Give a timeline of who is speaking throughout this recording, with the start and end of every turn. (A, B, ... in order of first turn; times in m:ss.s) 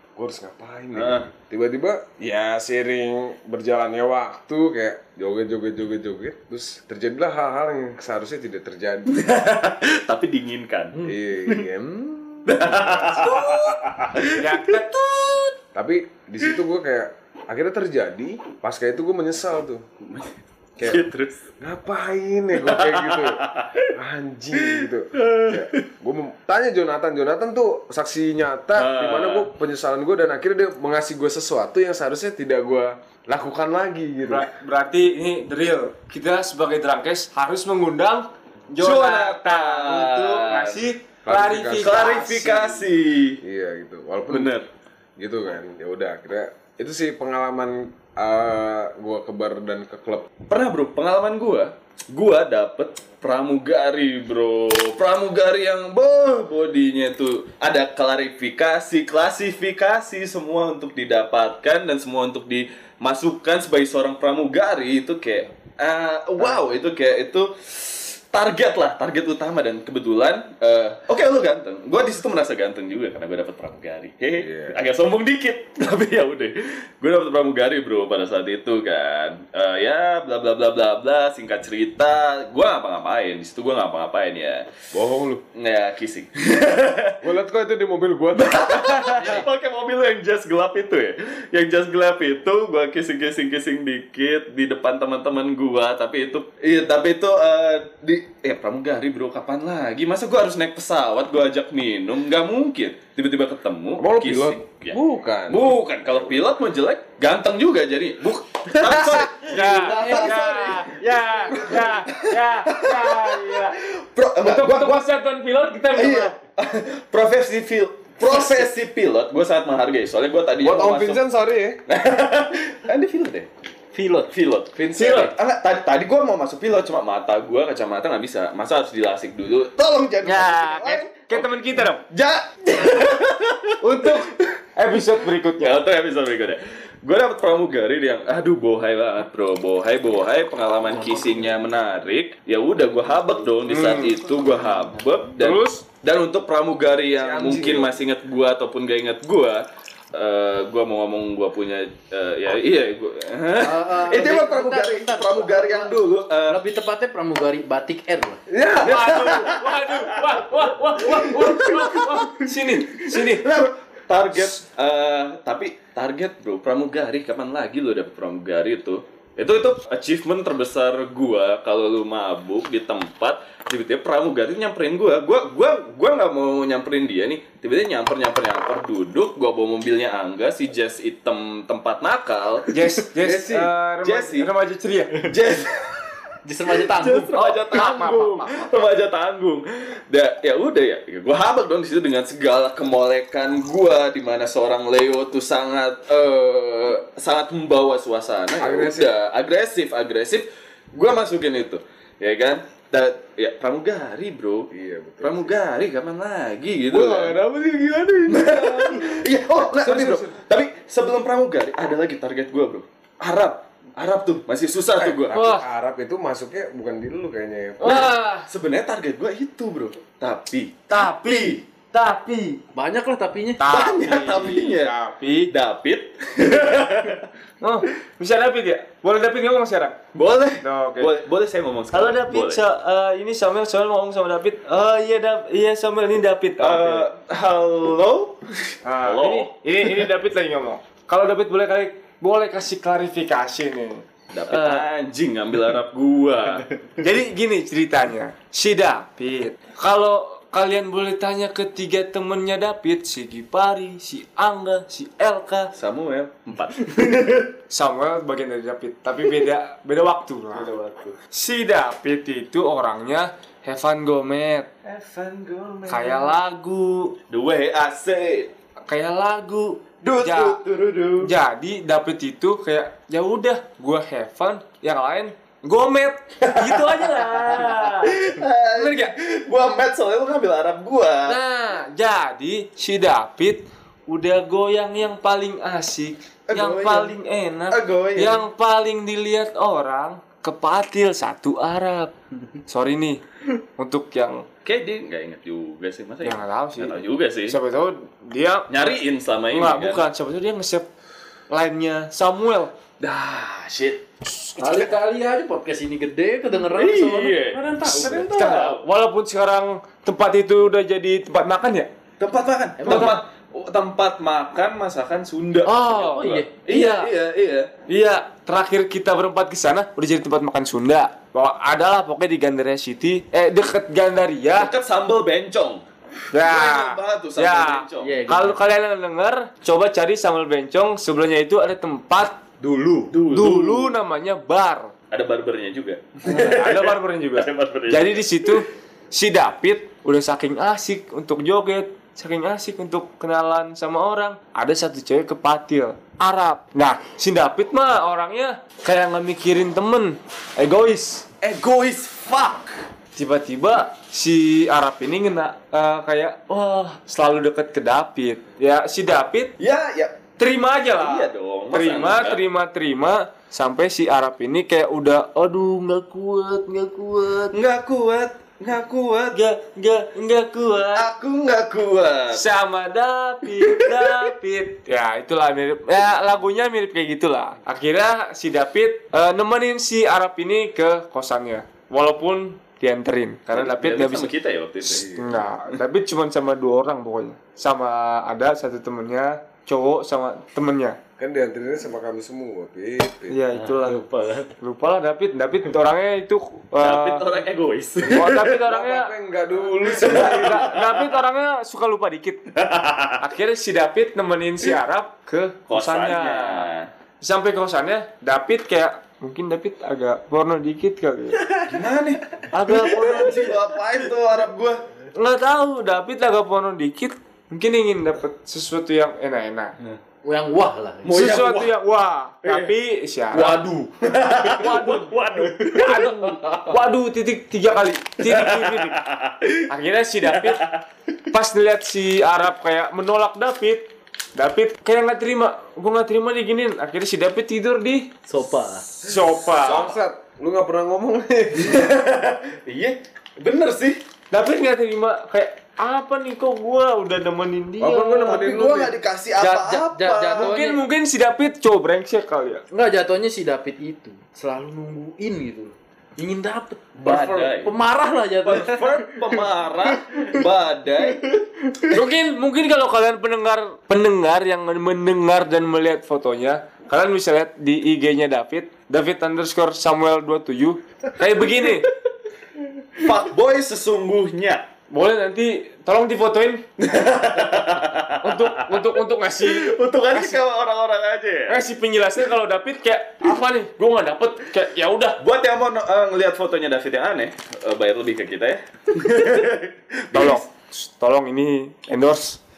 0:00.2-0:09.2 A
0:00.9-0:01.2 B
0:09.1-0:11.6 B
0:11.0-0:13.4 A
0:12.5-0:14.7 B
0:13.2-0:13.8 C
0:14.3-0:15.5 C
0:15.7-0:19.8 A
0:20.0-0:21.4 B
0:20.8-0:21.0 A
0:21.6-0:23.4 A
0:22.6-0:23.9 B
0:23.9-0:34.5 A
0:24.5-0:25.8 B
0:28.8-0:29.5 B
0:34.3-0:42.1 C
0:38.8-0:40.9 B
0:41.2-0:42.8 A
0:41.8-0:43.4 B
0:43.4-0:44.6 A
0:44.3-0:44.7 B
0:45.2-0:50.3 A
0:50.5-1:24.7 B
1:14.4-1:14.8 A
1:24.9-1:25.4 A
1:25.5-1:27.2 B
1:27.2-1:29.2 A
1:28.3-1:45.0 B
1:29.1-1:29.4 D
1:44.0-1:46.4 A
1:45.5-1:55.0 B
1:48.8-1:50.2 A
1:49.5-1:53.8 C
1:49.8-1:50.8 D
1:51.5-1:51.9 A
1:54.4-1:56.3 C
1:55.9-2:01.2 B
2:00.6-2:01.8 A
2:01.9-2:03.5 B
2:03.9-2:04.3 D
2:04.3-2:14.2 B
2:04.9-2:05.3 C
2:10.2-2:12.0 C
2:13.8-2:15.8 C
2:15.6-2:29.6 B
2:21.0-2:21.5 D
2:23.7-2:24.2 C
2:25.4-2:25.8 C
2:27.2-2:28.1 A
2:30.1-2:36.6 B
2:33.6-2:38.4 D
2:38.5-2:39.4 A
2:38.8-2:43.4 C
2:38.8-3:04.5 B
3:02.7-3:05.1 C
3:05.2-3:06.1 B
3:06.4-3:07.9 D
3:06.7-3:24.7 B
3:07.3-3:08.8 C
3:18.6-3:19.1 A
3:24.7-3:25.6 A
3:25.2-3:27.4 B
3:26.9-3:30.3 A
3:28.3-3:35.4 B
3:35.0-3:38.1 A
3:35.3-3:35.6 C
3:37.8-3:38.5 C
3:37.8-3:41.6 B
3:40.9-3:42.6 C
3:42.7-3:43.6 D
3:43.6-3:45.5 C
3:43.7-3:44.9 B
3:45.5-3:47.3 B
3:47.6-3:50.0 C
3:50.1-3:52.6 B
3:50.6-3:51.1 C
3:51.9-3:57.1 C
3:56.6-3:59.9 B
3:58.8-4:04.9 C
4:04.3-4:06.7 B
4:07.0-4:15.7 C
4:15.7-4:17.5 B
4:17.7-4:20.7 C
4:20.5-4:21.2 B
4:21.3-4:24.7 C
4:24.8-4:26.4 B
4:25.9-4:27.1 C
4:27.3-4:28.5 B
4:28.9-4:30.6 C
4:30.0-4:31.3 B
4:31.2-4:38.1 C
4:36.4-4:41.4 B
4:38.7-4:39.1 C
4:41.3-4:52.1 C
4:46.5-4:47.1 B
4:47.7-4:48.4 B
4:52.6-4:53.2 C
4:53.8-4:54.4 C
4:54.6-4:57.6 B
4:56.2-4:58.9 C
4:58.7-5:00.0 B
4:59.5-5:00.9 C
5:01.5-5:02.7 C
5:03.0-5:04.0 B
5:04.3-5:04.6 C
5:04.6-5:08.3 D
5:06.6-5:08.8 B
5:07.9-5:11.9 C
5:12.2-5:17.7 B
5:12.8-5:13.1 D
5:12.8-5:13.2 C
5:15.6-5:17.1 C
5:15.9-5:16.5 D
5:17.9-5:24.7 C
5:24.5-5:25.8 B
5:26.3-5:32.4 C
5:26.3-5:28.2 B
5:28.0-5:28.6 D
5:32.6-5:33.9 B
5:33.3-5:34.9 C
5:35.1-5:38.6 B
5:36.2-5:51.2 C
5:51.4-5:52.7 B
5:53.2-5:59.5 C
5:59.6-6:00.2 B
6:00.4-6:07.5 C
6:00.9-6:02.4 B
6:07.5-6:09.4 B
6:09.3-6:11.1 C
6:10.9-6:12.4 B
6:12.3-6:24.3 C
6:13.5-6:14.2 B
6:23.5-6:25.1 B
6:24.8-6:25.5 A
6:25.0-6:31.0 C
6:31.2-6:33.4 A
6:33.3-6:34.0 C
6:33.5-6:34.5 B
6:34.6-6:37.2 C
6:36.8-6:38.6 B
6:38.1-6:39.1 C
6:38.6-6:40.7 A
6:39.9-6:41.1 B
6:40.0-6:42.4 C
6:42.6-6:43.2 B
6:43.2-6:46.6 C
6:45.7-6:46.9 B
6:47.2-6:51.4 C
6:51.4-6:54.8 B
6:52.5-6:53.6 C
6:55.1-6:59.7 C
7:00.2-7:01.3 D
7:01.0-7:01.7 B
7:01.1-7:03.6 C
7:02.4-7:02.7 B
7:03.3-7:06.8 B
7:04.4-7:08.9 C
7:08.2-7:09.6 B
7:09.7-7:10.6 C
7:10.2-7:10.8 B
7:11.3-7:18.1 C
7:18.2-7:18.8 D
7:18.9-7:19.8 B
7:19.0-7:20.0 C
7:19.6-7:21.8 A
7:21.6-7:24.0 B
7:24.3-7:28.4 C
7:27.8-7:28.9 A
7:28.2-7:30.5 B
7:29.3-7:30.8 D
7:30.3-7:32.6 C
7:32.7-7:40.4 D
7:37.0-7:37.7 B
7:38.4-7:41.4 B
7:41.9-7:51.9 C
7:51.4-7:51.8 B
7:52.9-7:54.6 B
7:54.9-7:56.6 C
7:56.8-8:01.6 B
7:58.2-8:00.4 C
8:01.5-8:05.2 C
8:05.2-8:10.4 B
8:10.1-8:12.4 C